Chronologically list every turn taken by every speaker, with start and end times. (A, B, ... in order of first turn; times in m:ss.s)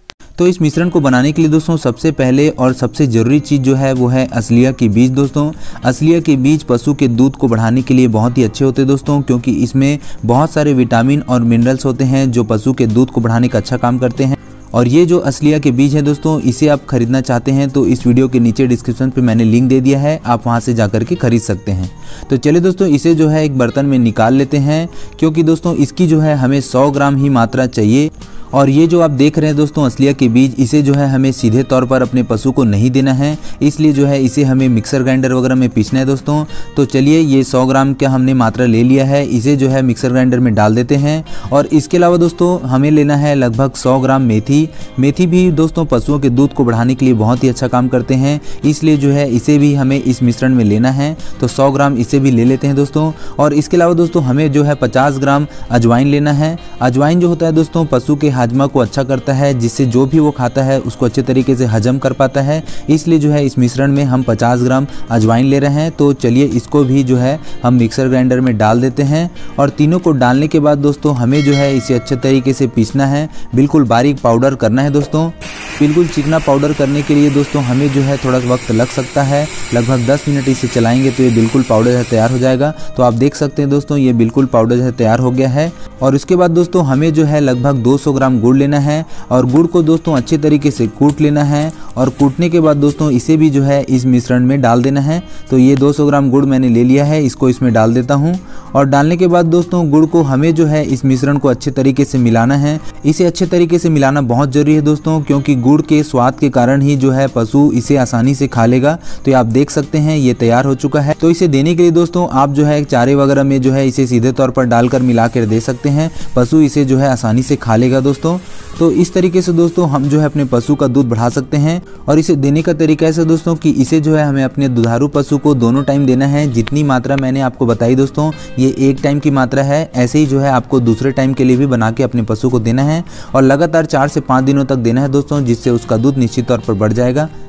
0:00.4-2:17.3 A